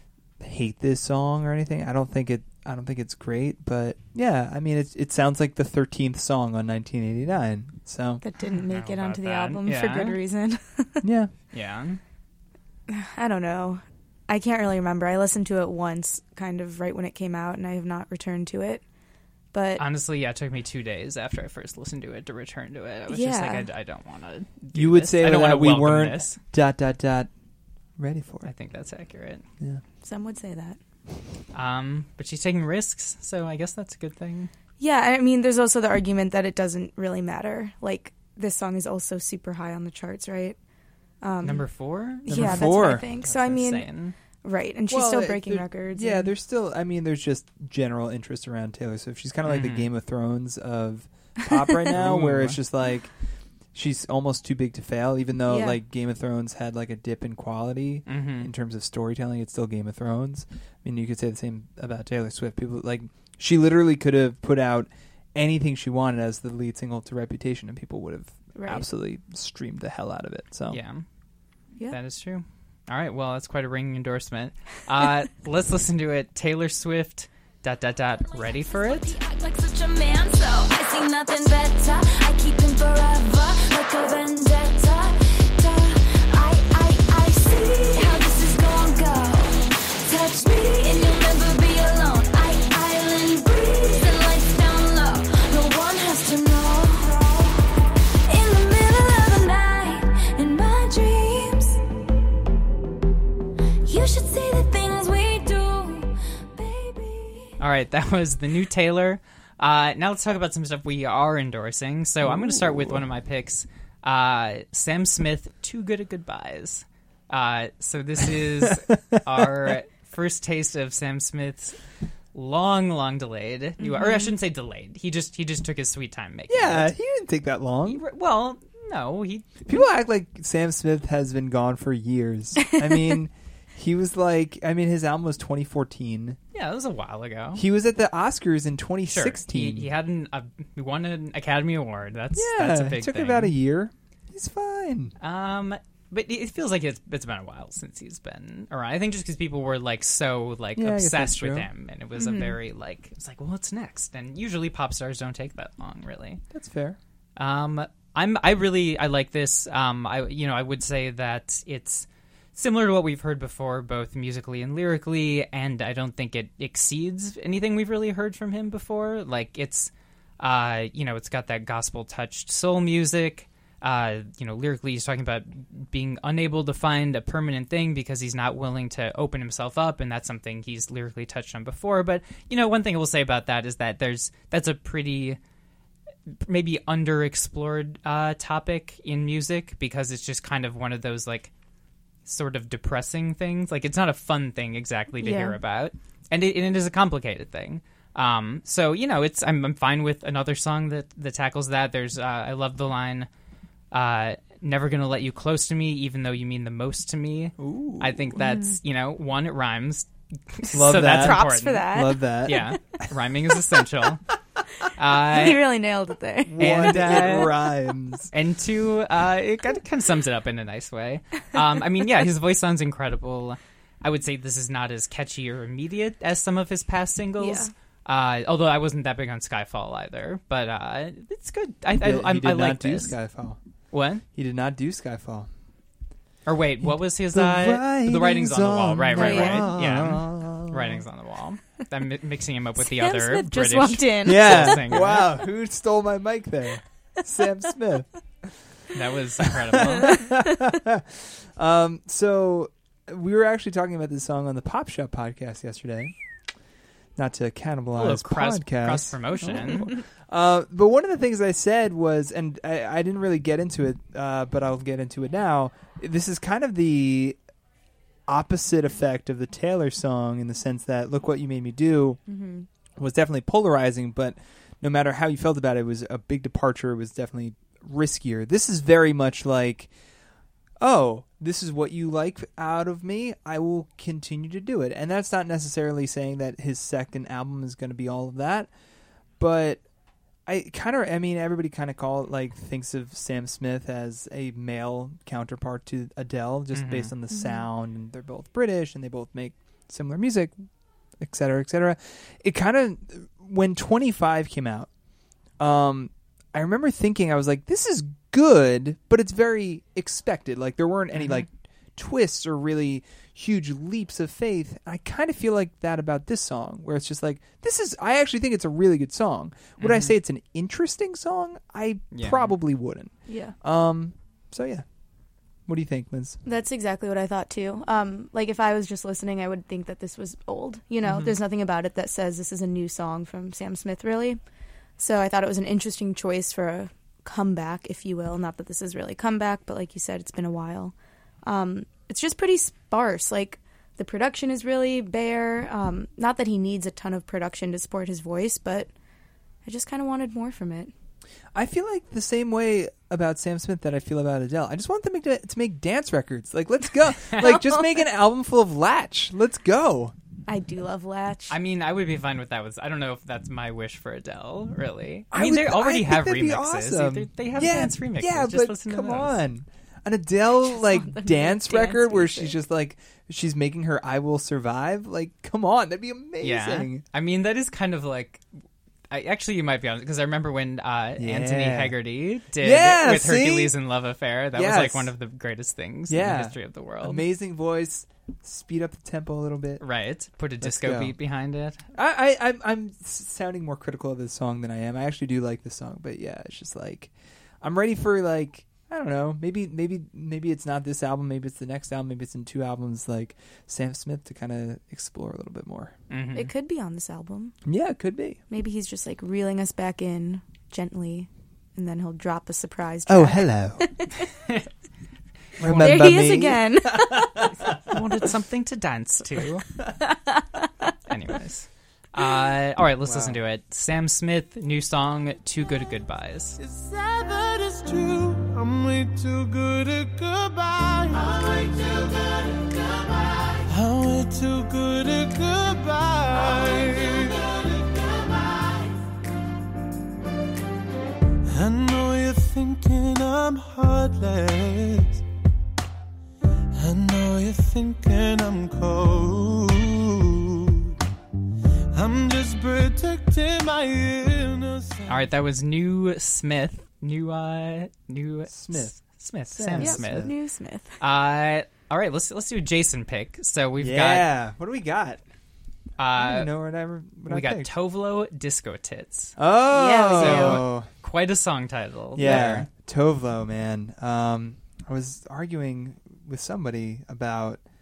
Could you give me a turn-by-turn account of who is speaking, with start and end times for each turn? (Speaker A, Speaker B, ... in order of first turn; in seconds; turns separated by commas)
Speaker A: 0.4-8.2, Speaker B: 8.2-11.0, Speaker C: 8.7-10.2, Speaker A: 11.0-11.3, Speaker C: 11.5-12.0, Speaker B: 12.9-18.8, Speaker B: 19.5-19.8, Speaker C: 19.8-26.4, Speaker B: 23.1-23.7, Speaker A: 24.7-27.3, Speaker A: 28.0-28.5, Speaker C: 28.4-29.5, Speaker B: 30.0-30.8, Speaker C: 31.5-34.5, Speaker B: 34.8-40.6, Speaker B: 41.2-41.6, Speaker C: 41.4-44.2, Speaker B: 42.2-43.9, Speaker A: 42.3-43.0, Speaker B: 44.4-46.3, Speaker A: 44.9-53.1, Speaker C: 49.5-49.9, Speaker C: 51.9-52.6, Speaker A: 53.7-70.8, Speaker B: 55.5-55.8, Speaker C: 58.1-58.5, Speaker B: 68.5-68.8, Speaker C: 70.7-71.0, Speaker C: 71.9-79.2, Speaker D: 79.1-101.8, Speaker D: 103.8-107.5, Speaker C: 107.6-121.8, Speaker A: 112.2-113.0, Speaker A: 118.6-119.5, Speaker C: 122.3-126.9, Speaker B: 123.8-124.3, Speaker A: 126.5-128.0, Speaker C: 127.9-129.5, Speaker A: 129.6-136.4, Speaker B: 132.7-133.2, Speaker C: 136.5-137.6, Speaker A: 137.5-139.9, Speaker C: 139.1-143.5, Speaker A: 142.3-145.1, Speaker C: 145.2-156.4, Speaker A: 150.8-151.7, Speaker B: 152.2-152.6, Speaker A: 156.5-157.0, Speaker C: 157.4-185.4, Speaker C: 186.3-191.5, Speaker C: 192.2-203.3, Speaker B: 195.2-195.6, Speaker C: 203.9-214.2, Speaker A: 207.6-208.4, Speaker B: 208.4-208.8, Speaker A: 210.7-213.1, Speaker B: 210.8-212.7, Speaker C: 215.0-215.6, Speaker B: 215.3-217.4, Speaker A: 216.4-218.3, Speaker C: 216.6-217.5, Speaker C: 218.3-233.2, Speaker B: 227.4-227.7, Speaker A: 231.9-233.6, Speaker C: 233.9-234.2, Speaker A: 234.3-235.5, Speaker C: 236.4-245.3, Speaker A: 236.8-241.0, Speaker B: 239.1-239.7, Speaker B: 242.8-245.1, Speaker A: 244.2-248.6, Speaker C: 248.9-250.2, Speaker A: 249.4-256.1, Speaker B: 249.8-250.2, Speaker A: 257.1-267.4, Speaker C: 257.9-259.9, Speaker A: 268.3-272.2, Speaker B: 272.3-272.7, Speaker A: 273.0-279.9, Speaker A: 280.8-288.7, Speaker A: 289.4-289.8, Speaker A: 290.4-300.6, Speaker C: 296.7-297.1, Speaker B: 297.3-297.7, Speaker A: 301.2-304.9, Speaker A: 305.6-324.9, Speaker C: 311.1-311.4, Speaker C: 319.8-320.1, Speaker C: 322.1-322.5, Speaker B: 323.3-323.5, Speaker A: 325.7-326.4, Speaker B: 326.4-334.4, Speaker C: 331.0-331.3, Speaker B: 335.0-348.9, Speaker B: 349.6-350.9, Speaker A: 351.5-360.1, Speaker B: 357.4-357.9, Speaker B: 360.5-361.6, Speaker C: 361.5-369.4, Speaker A: 365.3-377.0, Speaker B: 370.6-372.6, Speaker C: 376.4-378.4, Speaker C: 379.1-387.2, Speaker A: 381.2-381.9, Speaker A: 382.6-383.7, Speaker A: 384.5-385.1, Speaker A: 386.1-389.8, Speaker C: 389.8-391.9, Speaker A: 390.6-391.1, Speaker A: 391.9-405.9, Speaker C: 406.1-406.5, Speaker B: 406.3-407.5, Speaker A: 407.6-408.4, Speaker B: 408.5-414.1, Speaker A: 413.1-413.8, Speaker A: 415.6-417.3, Speaker C: 415.6-416.2, Speaker B: 415.6-417.5, Speaker C: 417.9-419.7, Speaker B: 420.1-420.4, Speaker C: 421.1-426.6, Speaker A: 423.0-423.4, Speaker E: 426.6-432.0, Speaker E: 433.7-437.6, Speaker E: 441.5-445.2, Speaker E: 446.8-450.8, Speaker E: 451.9-455.3, Speaker C: 455.1-460.3, Speaker A: 458.5-460.3, Speaker B: 459.7-460.9, Speaker C: 461.0-464.3, Speaker A: 463.8-465.2, Speaker C: 466.0-466.5, Speaker A: 466.1-467.7, Speaker C: 467.2-469.4, Speaker A: 469.4-470.9, Speaker B: 469.7-470.6, Speaker C: 470.1-472.7, Speaker A: 472.1-477.6